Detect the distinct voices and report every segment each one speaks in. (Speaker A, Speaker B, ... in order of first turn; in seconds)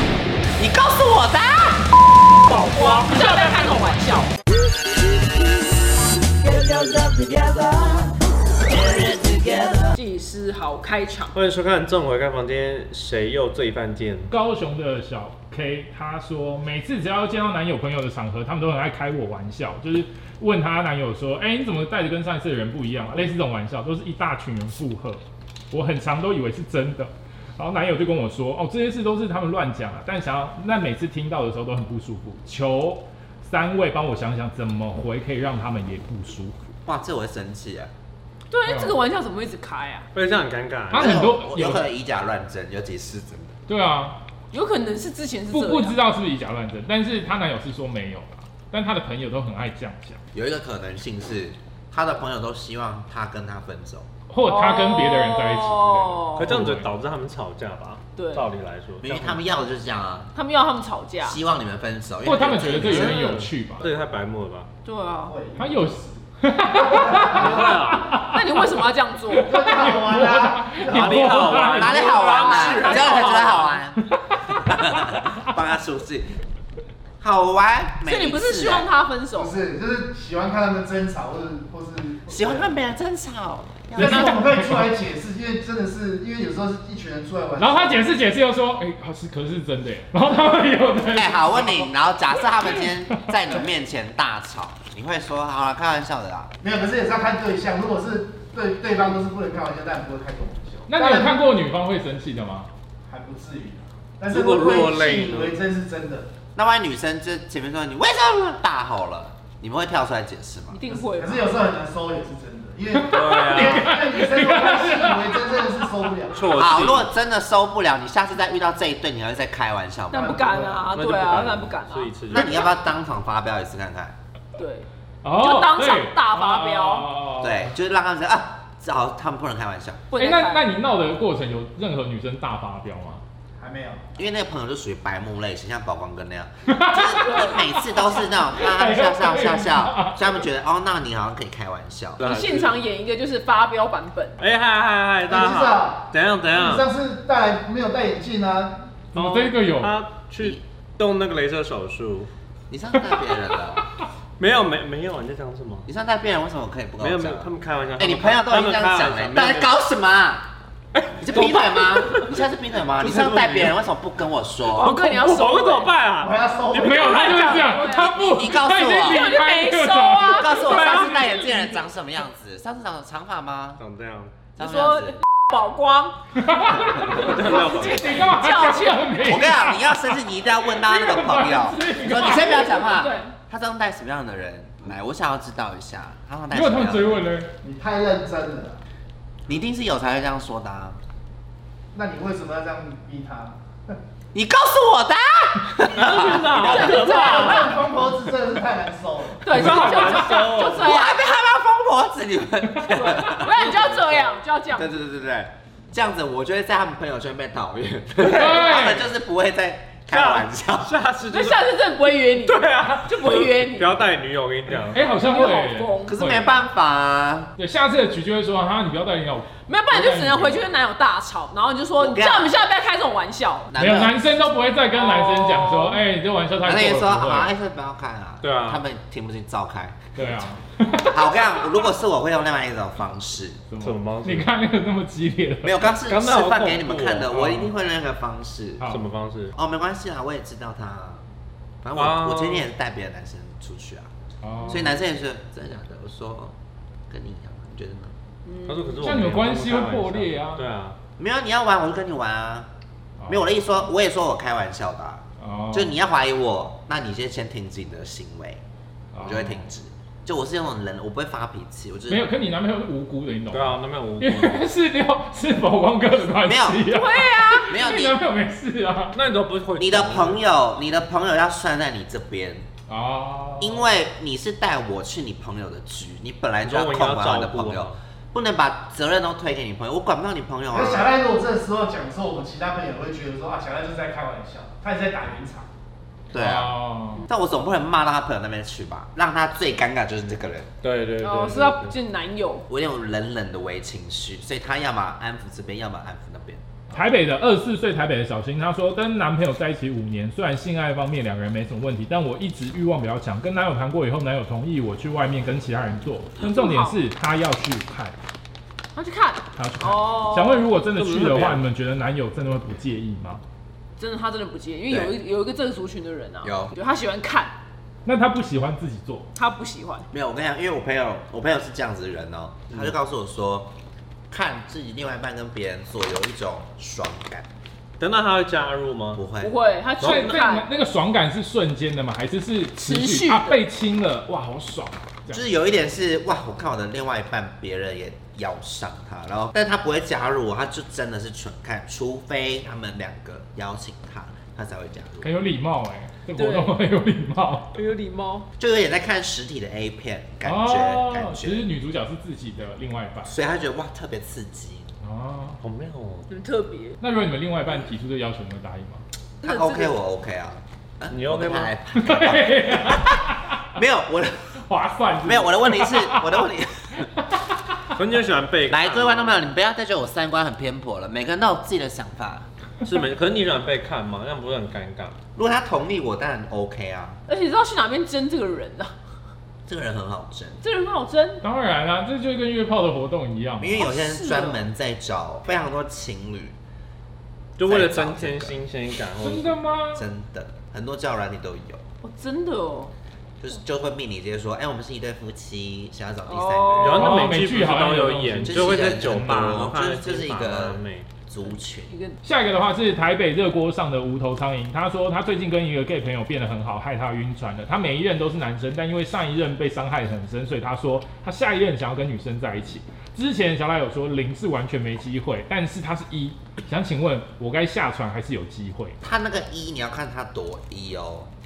Speaker A: 0.6-2.4, 6.4-8.1, 8.7-9.9, 36.8-37.9, 40.9-43.5, 50.3-54.1, 59.0-60.3, 61.2-63.4, 71.7-76.3, 77.2-78.9, 82.3-84.4, 91.1-96.5, 106.5-110.8, 116.5-120.5, 122.3-124.2, 127.4-130.0, 134.1-142.2, 152.7-153.8, 155.9-160.5, 161.2-164.9, 167.9-169.3, 170.2-173.8, 174.6-175.2, 179.2-187.2, 189.5-191.0, 194.3-197.7, 200.4-203.8, 204.8-210.9, 216.1-217.5, 222.0-222.5, 223.7-224.2, 226.6-230.1, 231.1-233.6, 235.6-238.8, 239.5-241.2, 241.8-244.1, 244.7-246.5, 247.1-248.1, 251.2-252.7, 253.3-258.6, 259.2-262.3, 266.4-266.8, 267.7-268.1, 269.8-272.6, 273.6-281.1, 286.3-290.7, 292.7-296.6, 316.4-316.7, 320.1-323.7, 324.3-327.5, 329.1-329.5, 335.3-345.3, 348.6-351.6, 353.2-354.9, 359.4-363.2, 363.7-364.6, 365.2-367.1, 368.7-372.5, 375.3-377.2, 379.7-380.6, 383.6-386.5, 387.6-388.6, 389.9-391.8, 393.4-397.3, 398.4-401.9, 419.0-421.3
Speaker B: 2.5-4.3, 9.9-11.3, 38.5-40.1, 44.5-46.0, 54.4-56.5, 58.1-58.4, 60.3-61.4, 64.8-65.4, 66.7-67.1, 68.2-69.6, 72.4-73.8, 78.0-79.6, 110.7-111.6, 120.1-122.6, 124.5-127.1, 130.1-130.7, 137.2-137.6, 142.2-144.4, 164.7-166.0, 167.0-168.2, 169.0-171.7, 174.6-179.3, 182.4-183.3, 195.9-197.8, 199.4-201.2, 202.8-204.9, 211.3-214.0, 215.0-216.1, 219.6-223.7, 224.9-226.0, 248.4-249.2, 266.9-268.0, 291.2-292.7, 306.4-307.0, 308.9-310.7, 314.0-317.5, 319.3-320.1, 329.4-330.7, 332.8-333.6, 346.3-346.8, 347.7-348.5, 356.3-357.0, 359.4-360.0, 377.3-378.9, 380.6-381.4, 383.7-384.6, 392.0-392.9, 396.2-397.0, 401.4-402.2
Speaker C: 2.7-3.4, 14.3-36.7, 38.6-39.0, 40.9-41.9, 43.7-44.2, 45.5-50.2, 54.3-56.9, 62.2-63.8, 65.5-68.7, 69.3-72.1, 74.0-75.4, 84.0-84.9, 87.6-93.6, 100.9-102.7, 112.9-116.0, 125.2-127.7, 130.2-133.2, 136.7-140.4, 149.1-150.0, 166.7-171.2, 176.3-182.9, 186.5-187.5, 199.5-200.4, 208.2-209.1, 214.7-216.5, 217.6-220.7, 223.8-227.5, 230.2-231.8, 233.7-235.9, 237.3-237.7, 244.4-244.9, 249.0-250.7, 253.2-253.6, 255.4-255.9, 259.1-259.6, 262.1-269.2, 272.9-273.9, 286.3-287.2, 296.9-308.1, 309.6-313.4, 318.1-319.3, 330.0-335.4, 345.2-347.7, 350.4-353.3, 355.0-355.6, 357.0-359.0, 361.9-363.6, 364.6-366.4, 367.0-367.9, 381.4-383.8, 389.2-390.0, 396.9-399.6, 402.2-419.0
Speaker D: 11.3-14.3, 40.1-41.2, 56.4-59.4, 62.8-64.7, 67.3-68.1, 70.8-73.5, 104.3-105.6, 113.1-114.0, 116.3-117.1, 120.9-122.6, 142.2-142.8, 144.4-146.9, 149.1-152.3, 154.4-155.9, 157.0-159.7, 160.9-162.3, 163.0-163.7, 164.8-167.6, 170.7-171.2, 173.8-174.4, 177.0-178.4, 196.2-197.2, 199.5-201.0, 203.8-204.1, 210.1-211.7, 212.3-215.1, 228.4-228.8, 233.8-234.5, 236.1-237.4, 238.9-239.5, 241.9-242.7, 248.6-251.0, 263.5-264.7, 269.1-270.4, 276.6-278.0, 290.8-291.9, 310.9-311.6, 328.0-329.2, 330.0-330.3, 355.6-356.3, 361.1-361.7, 367.9-369.4, 372.8-375.2, 387.6-389.6, 396.8-401.1
Speaker E: 65.2-66.2, 66.8-68.2, 69.4-72.6, 79.3-82.7, 84.0-88.1, 96.6-101.3, 103.1-106.3, 110.9-116.4, 120.2-120.9, 133.6-134.1, 145.3-148.8, 166.2-167.5, 187.6-188.8, 191.9-193.9, 196.8-200.2, 280.7-285.7